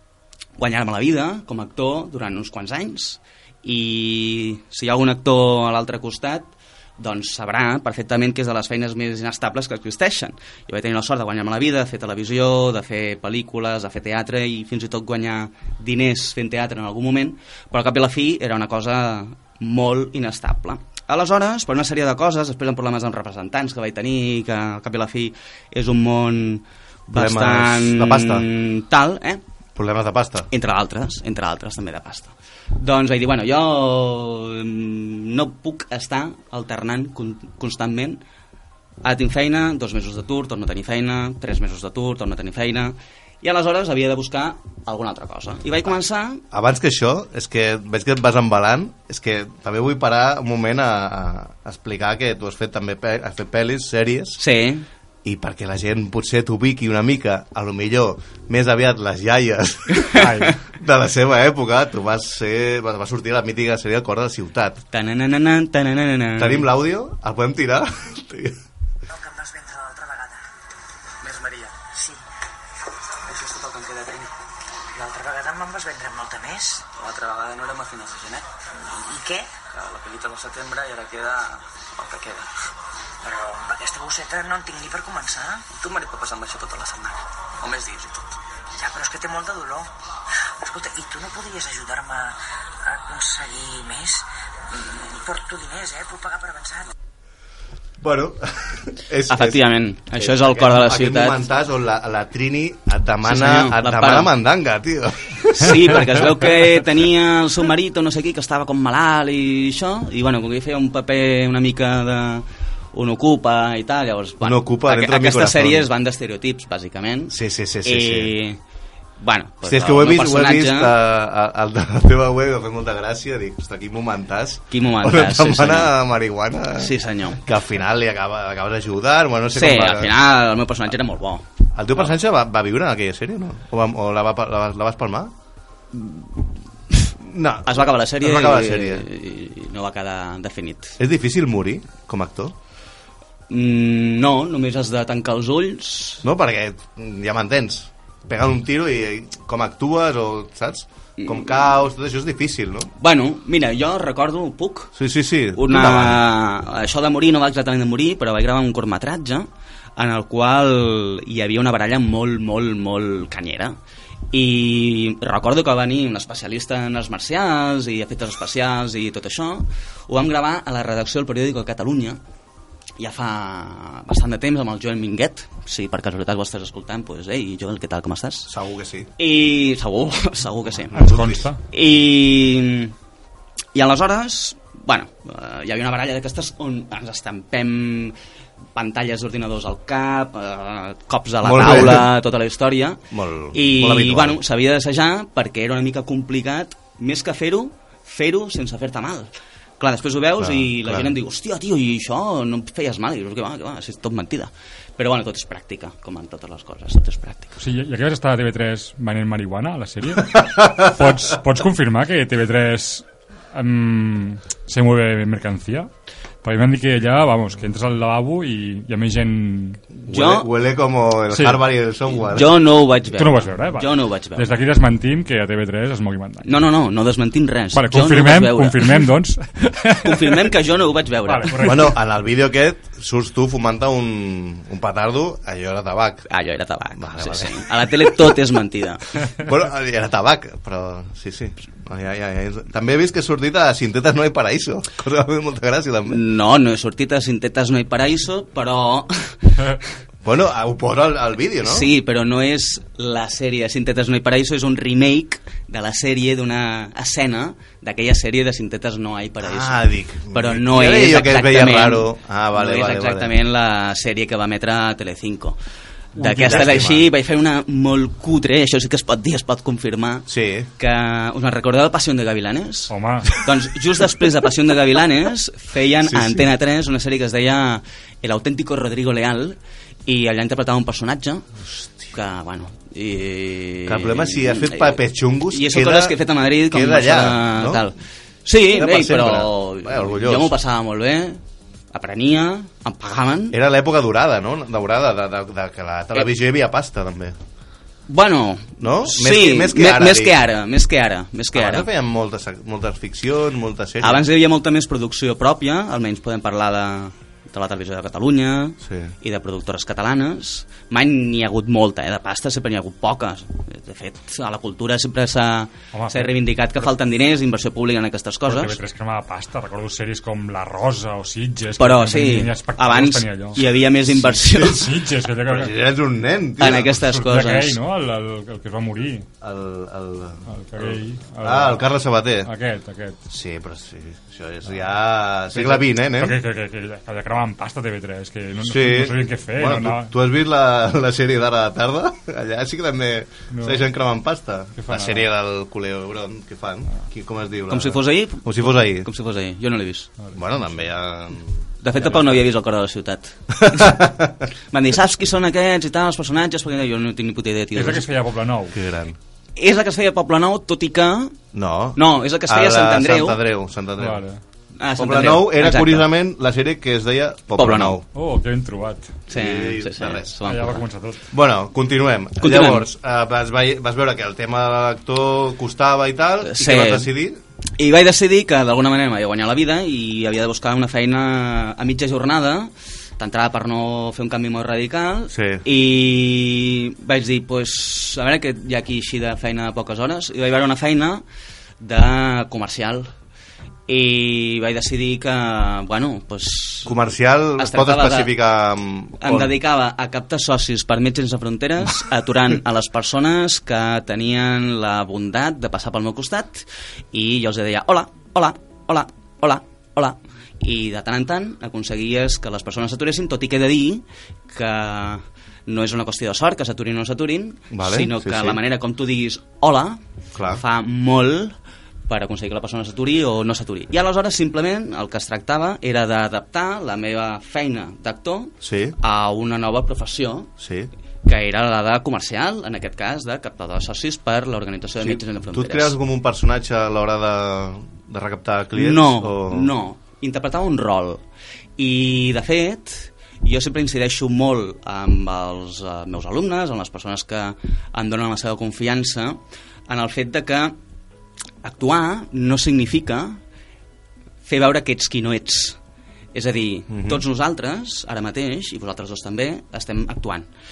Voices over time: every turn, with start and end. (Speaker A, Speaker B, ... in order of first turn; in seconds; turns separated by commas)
Speaker A: 0.6-29.4, Speaker B: 27.1-28.5, Speaker B: 29.8-30.5, Speaker A: 30.5-38.2, Speaker A: 39.0-46.4, Speaker B: 46.5-54.4, Speaker A: 54.4-54.9, Speaker B: 55.2-64.8, Speaker A: 60.0-60.5, Speaker C: 60.1-60.5, Speaker A: 64.9-66.7, Speaker B: 66.4-68.6, Speaker D: 69.1-70.5, Speaker D: 71.2-72.2, Speaker D: 73.3-74.3, Speaker D: 74.9-82.5, Speaker D: 83.2-88.2, Speaker D: 88.8-89.9, Speaker D: 90.6-96.9, Speaker B: 98.0-106.6, Speaker A: 99.3-101.4, Speaker A: 103.2-104.3, Speaker A: 105.6-117.3, Speaker B: 114.4-115.9, Speaker B: 117.3-118.3, Speaker A: 117.8-118.6, Speaker A: 119.2-120.9, Speaker B: 119.6-130.1, Speaker A: 124.7-125.9, Speaker A: 126.8-127.4, Speaker A: 129.5-131.4, Speaker B: 131.8-135.3, Speaker A: 135.9-136.2, Speaker B: 137.2-139.1, Speaker A: 137.7-140.9, Speaker B: 141.0-142.6, Speaker A: 143.5-146.2, Speaker B: 146.2-152.9, Speaker A: 151.2-151.5, Speaker A: 153.0-154.9, Speaker B: 154.9-156.2, Speaker A: 155.6-163.8, Speaker A: 164.3-172.2, Speaker A: 173.0-178.5, Speaker B: 178.5-179.1, Speaker A: 179.2-181.1, Speaker B: 180.8-181.4, Speaker C: 180.9-181.6, Speaker A: 181.7-182.9, Speaker A: 183.7-188.1, Speaker A: 188.8-193.0, Speaker B: 191.4-192.1, Speaker B: 193.1-194.4, Speaker A: 193.5-207.5, Speaker B: 200.4-201.2, Speaker C: 207.6-215.9, Speaker C: 216.4-219.8, Speaker B: 220.0-222.6, Speaker A: 220.1-220.5, Speaker C: 221.3-221.6, Speaker A: 222.2-224.5, Speaker C: 223.1-226.5, Speaker A: 226.4-229.0, Speaker C: 227.7-230.3, Speaker A: 230.0-231.8, Speaker C: 231.2-231.9, Speaker B: 231.6-236.3, Speaker A: 236.3-239.1, Speaker B: 237.0-238.4, Speaker B: 239.4-246.2, Speaker A: 246.1-249.3, Speaker B: 250.2-251.9, Speaker A: 251.6-265.6, Speaker B: 259.4-263.3, Speaker A: 266.2-270.2, Speaker B: 266.2-267.1, Speaker B: 270.3-270.7, Speaker A: 270.8-281.5, Speaker C: 272.9-273.3, Speaker B: 276.0-276.5, Speaker A: 282.1-285.0, Speaker B: 283.9-287.9, Speaker A: 285.5-291.4, Speaker B: 288.7-290.6, Speaker A: 291.9-293.6, Speaker B: 293.5-297.4, Speaker A: 298.1-301.9, Speaker B: 298.8-300.4, Speaker B: 301.5-304.2, Speaker A: 304.0-318.8, Speaker B: 308.8-309.1, Speaker C: 315.9-316.3, Speaker C: 318.5-323.6, Speaker A: 321.8-324.9, Speaker B: 324.2-324.9, Speaker C: 324.5-325.7, Speaker B: 325.5-327.0, Speaker A: 326.6-327.8, Speaker C: 326.6-329.2, Speaker B: 329.4-332.5, Speaker C: 330.5-331.9, Speaker C: 332.4-333.2, Speaker B: 333.3-336.4, Speaker C: 335.5-340.1, Speaker B: 338.6-349.1, Speaker C: 343.5-343.8, Speaker C: 344.8-345.2, Speaker A: 347.7-350.1, Speaker B: 350.3-352.4, Speaker A: 351.8-354.0, Speaker B: 353.7-354.3, Speaker A: 354.7-358.0, Speaker C: 357.7-358.8, Speaker B: 358.7-359.2, Speaker A: 359.6-361.4, Speaker B: 361.5-364.2, Speaker A: 362.0-363.4, Speaker C: 364.0-364.4, Speaker A: 364.8-366.1, Speaker B: 365.0-368.0, Speaker A: 367.6-368.0, Speaker C: 368.1-369.2, Speaker B: 369.3-370.4, Speaker A: 369.3-370.8, Speaker C: 370.4-371.2, Speaker B: 371.3-377.4, Speaker A: 372.4-372.9, Speaker A: 376.4-377.1, Speaker A: 377.8-391.2, Speaker B: 385.3-385.6, Speaker A: 391.8-393.1, Speaker A: 393.9-397.0, Speaker B: 396.9-399.6, Speaker A: 397.6-398.3, Speaker A: 399.2-420.0, Speaker B: 417.7-418.6, Speaker B: 420.4-420.6, Speaker A: 420.5-421.6, Speaker A: 422.1-430.5, Speaker B: 428.6-429.0, Speaker B: 430.6-430.9, Speaker A: 431.2-435.9, Speaker B: 435.0-439.7, Speaker A: 438.8-441.2, Speaker A: 441.8-450.8, Speaker A: 451.6-453.4, Speaker A: 454.4-455.8, Speaker A: 456.3-460.5, Speaker B: 456.9-457.2